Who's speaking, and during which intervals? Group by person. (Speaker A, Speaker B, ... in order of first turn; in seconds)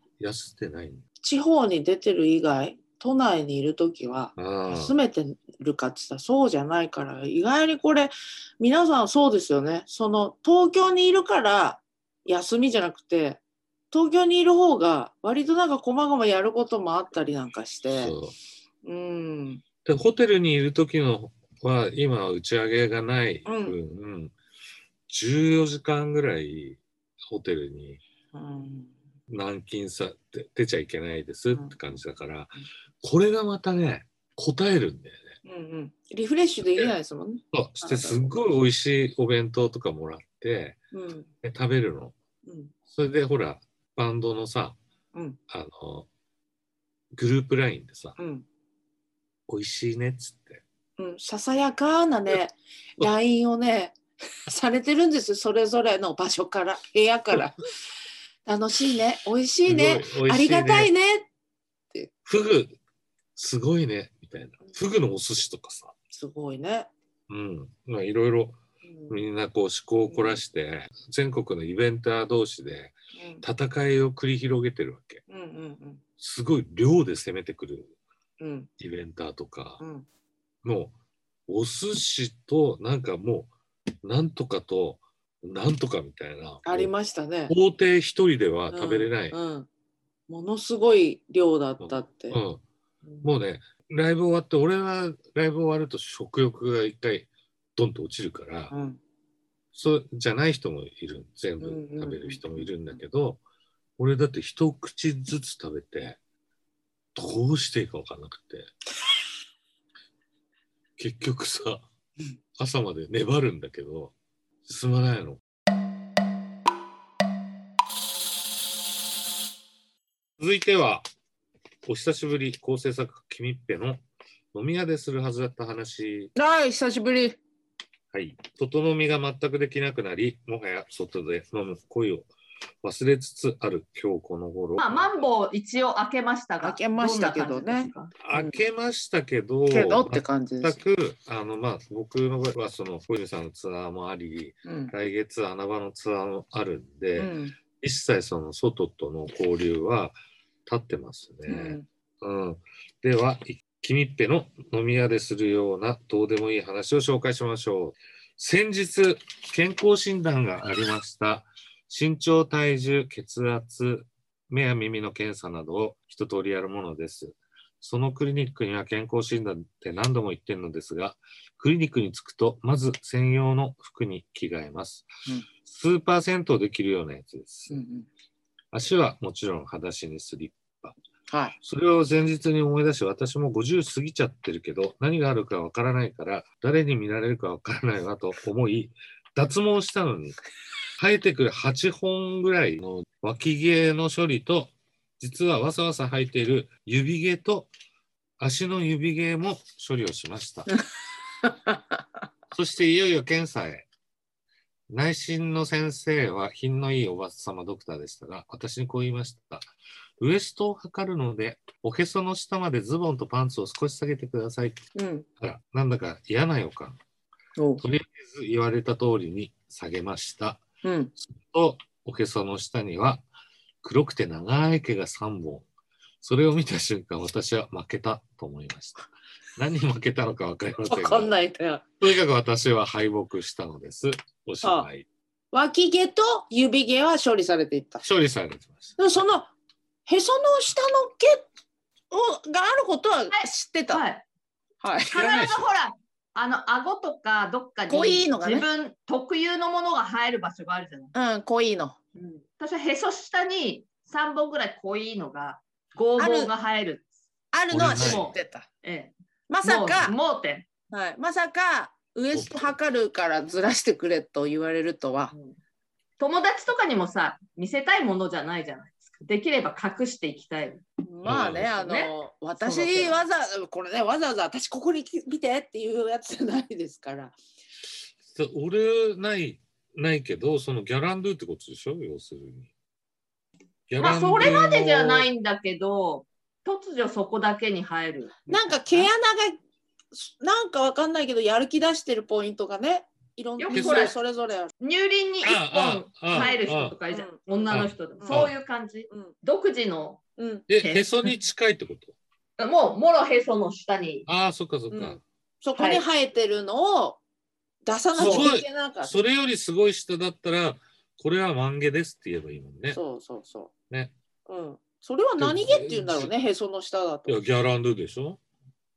Speaker A: 0.2-1.0, 4.4-4.9, 17.9-18.4, 19.8-24.3, 25.1-28.0, 29.3-35.3, 37.5-40.8, 41.4-42.1, 42.9-44.8, 45.5-46.1, 47.1-48.1, 49.5-50.6, 59.6-60.9, 62.2-62.8, 63.4-65.9, 67.3-68.6, 69.1-75.2, 76.2-77.9, 78.8-79.8, 80.6-80.9, 81.5-83.5, 84.0-86.9, 87.5-89.3, 91.8-92.6, 93.2-98.7, 99.7-103.4, 104.0-106.2, 107.1-108.7, 111.0-111.8, 112.6-115.4, 120.4-121.0, 121.8-124.0, 124.5-126.3, 128.1-132.3, 132.8-135.1, 138.2-175.1, 175.6-177.8, 178.7-180.9, 181.6-190.3, 191.0-197.7, 198.4-200.7, 202.5-203.9, 204.9-209.7, 210.2-214.8, 215.4-217.0, 217.8-220.6, 221.2-223.2, 223.8-225.7, 226.2-231.3, 232.0-235.1, 238.0-238.9, 245.1-245.7, 257.7-258.3, 262.3-262.7, 271.2-271.7, 278.2-282.7, 283.9-285.3, 293.7-294.1, 295.4-297.0, 297.7-298.6, 300.7-302.1, 304.3-305.2, 308.2-313.0, 315.4-316.3, 317.3-318.4
Speaker B: 1.2-18.1, 18.8-19.6, 23.4-23.8, 28.3-28.9, 35.4-38.5, 40.9-41.3, 42.5-42.7, 48.2-48.4, 51.0-57.7, 58.5-61.3, 66.1-66.9, 68.8-69.2, 70.1-70.4, 73.1-73.4, 75.3-76.0, 78.4-78.7, 79.8-80.0, 86.6-87.5, 88.7-89.7, 90.3-92.4, 98.7-99.0, 101.6-102.7, 126.3-127.4, 136.6-138.6, 139.7-140.8, 144.6-144.9, 147.2-147.6, 151.5-151.8, 177.7-178.1, 181.3-181.6, 201.4-202.0, 214.9-215.2, 217.6-217.8, 220.8-221.1, 230.8-231.8, 234.6-234.9, 235.5-238.0, 239.0-239.5, 240.1-241.4, 242.1-244.0, 244.8-245.4, 247.9-248.7, 251.1-252.0, 256.2-256.5, 257.5-258.6, 259.5-260.1, 260.9-265.3, 271.1-277.4, 288.5-289.6, 290.1-294.7, 297.1-298.5, 300.4-300.6, 304.9-307.2, 307.8-309.1, 312.9-313.7, 314.5-317.4
Speaker C: 134.8-138.1, 243.3-244.2, 245.1-251.1, 252.2-257.1, 257.8-259.1, 259.6-260.7, 265.3-265.6, 266.2-270.8, 271.6-273.2, 284.0-289.1, 293.6-294.2, 294.8-301.3, 302.6-304.3, 305.8-306.0, 308.2-308.5